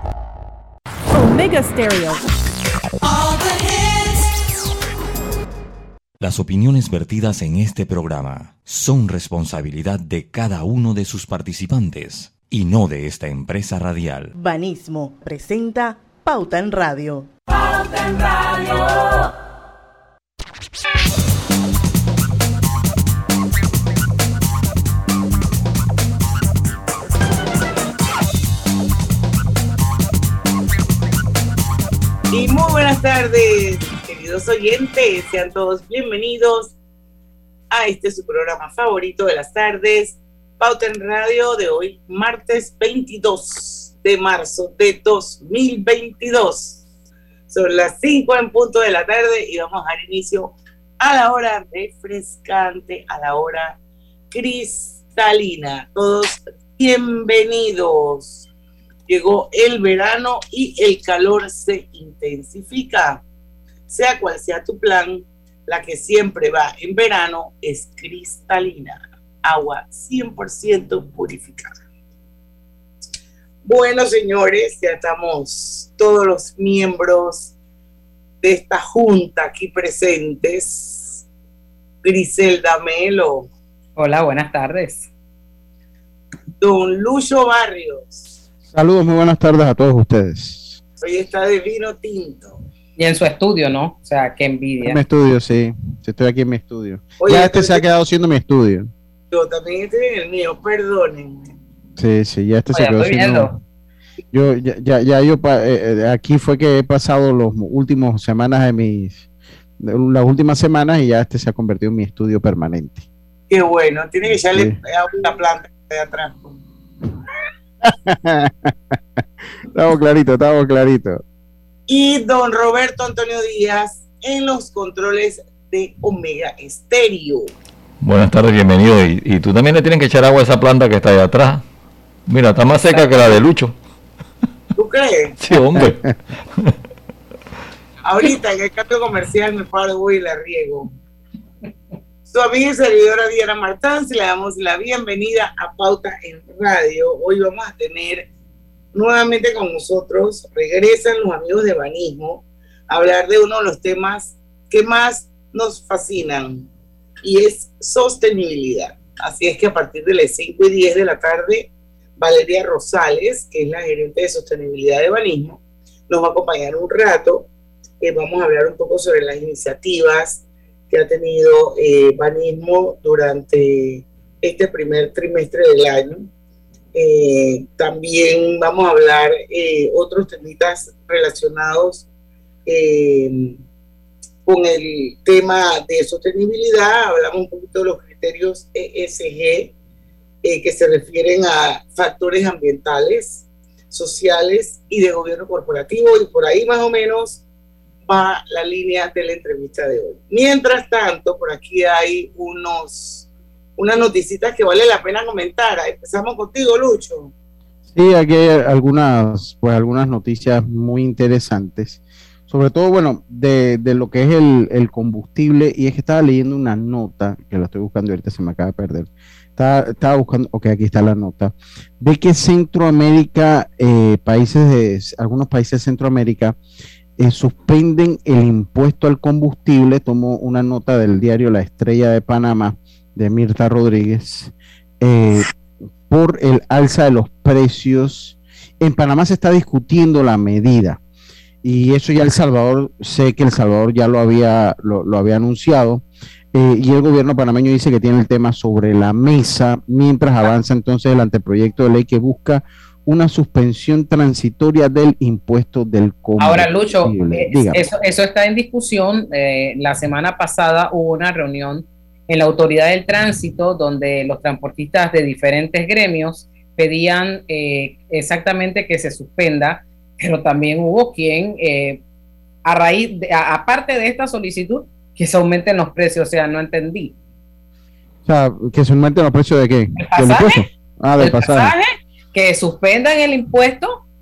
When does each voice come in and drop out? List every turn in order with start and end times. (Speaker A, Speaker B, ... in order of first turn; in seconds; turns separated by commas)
Speaker A: 6.2-14.3, Speaker B: 14.3-17.3, Speaker C: 32.3-36.7, Speaker C: 37.7-46.8, Speaker C: 47.5-53.8, Speaker C: 54.3-58.5, Speaker C: 59.1-63.2, Speaker C: 63.9-71.8, Speaker C: 73.6-77.5, Speaker C: 78.4-81.2, Speaker C: 82.0-83.5, Speaker D: 84.0-85.1, Speaker C: 86.6-88.3, Speaker E: 88.7-90.8, Speaker C: 91.0-92.6, Speaker D: 93.0-95.0, Speaker E: 94.8-98.9, Speaker C: 97.2-97.8, Speaker C: 99.3-101.5, Speaker E: 102.0-103.5, Speaker D: 102.7-103.5, Speaker E: 104.3-109.2, Speaker E: 109.8-113.0, Speaker C: 113.5-116.6, Speaker E: 117.8-121.2, Speaker C: 121.9-127.5, Speaker F: 128.0-131.6, Speaker F: 132.3-133.7, Speaker C: 134.8-135.4, Speaker F: 135.4-136.0, Speaker C: 138.0-140.9, Speaker C: 142.2-148.3, Speaker C: 148.9-156.7, Speaker C: 157.2-167.5, Speaker C: 168.0-176.3, Speaker C: 176.9-182.1, Speaker C: 182.7-183.6, Speaker C: 184.4-189.7, Speaker C: 190.4-197.4, Speaker C: 198.1-207.3, Speaker E: 207.9-226.6, Speaker E: 227.2-235.5, Speaker E: 236.1-241.0, Speaker E: 241.6-257.8, Speaker D: 256.4-272.0, Speaker D: 272.6-277.1, Speaker E: 278.2-281.7, Speaker D: 280.0-280.6, Speaker D: 281.2-284.0